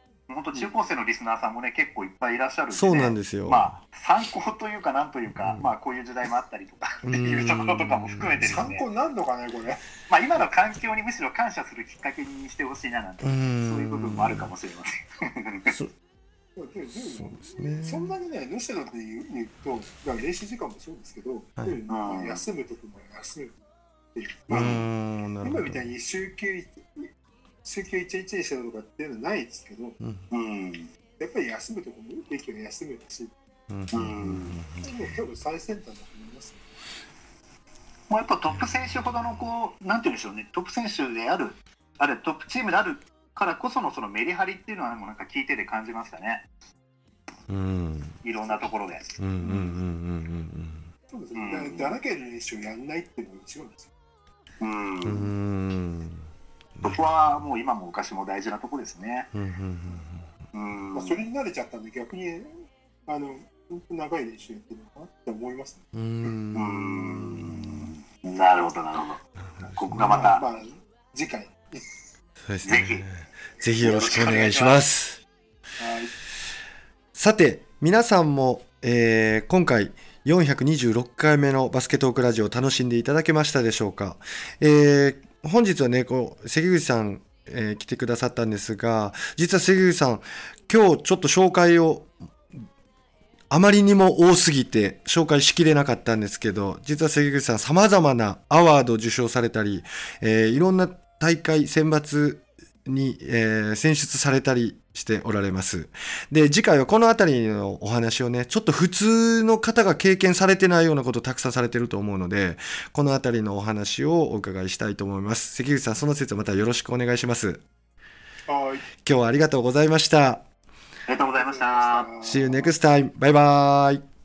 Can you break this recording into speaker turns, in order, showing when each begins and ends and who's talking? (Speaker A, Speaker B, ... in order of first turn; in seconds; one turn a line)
Speaker A: 0.3-8.8
Speaker B: 2.7-3.8
Speaker B: 5.3-5.7
Speaker B: 7.0-8.7
Speaker C: 8.4-9.8
Speaker A: 10.1-15.8
Speaker B: 13.2-14.5
Speaker B: 15.7-15.9
Speaker C: 16.6-23.5
Speaker B: 17.2-18.1
Speaker A: 21.9-22.4
Speaker C: 24.1-24.9
Speaker B: 24.5-25.9
Speaker C: 25.4-27.1
Speaker C: 27.6-30.0
Speaker B: 30.0-30.2
Speaker A: 30.3-30.9
Speaker C: 31.2-33.3
Speaker B: 33.7-35.0
Speaker A: 33.9-34.6
Speaker C: 34.8-36.6
Speaker A: 38.1-46.4
Speaker B: 47.5-48.2
Speaker A: 48.2-49.0
Speaker B: 49.2-50.9
Speaker C: 49.4-49.7
Speaker C: 51.1-53.9
Speaker A: 51.3-51.9
Speaker A: 54.6-55.3
Speaker B: 55.0-56.3
Speaker B: 56.8-57.0
Speaker A: 56.8-59.3
Speaker B: 59.3-60.3
Speaker A: 60.5-61.2
Speaker C: 60.9-65.8
Speaker B: 65.9-67.9
Speaker A: 66.5-69.2
Speaker B: 69.5-70.3
Speaker A: 69.7-70.4
Speaker C: 69.9-71.8
Speaker B: 72.4-75.2
Speaker A: 72.6-73.0
Speaker A: 73.8-74.8
Speaker C: 75.8-76.1
Speaker B: 77.1-92.6
Speaker B: 93.5-117.6
Speaker C: 118.5-118.9
Speaker B: 119.0-120.4
Speaker A: 121.1-122.1
Speaker C: 121.3-122.7
Speaker B: 122.2-124.0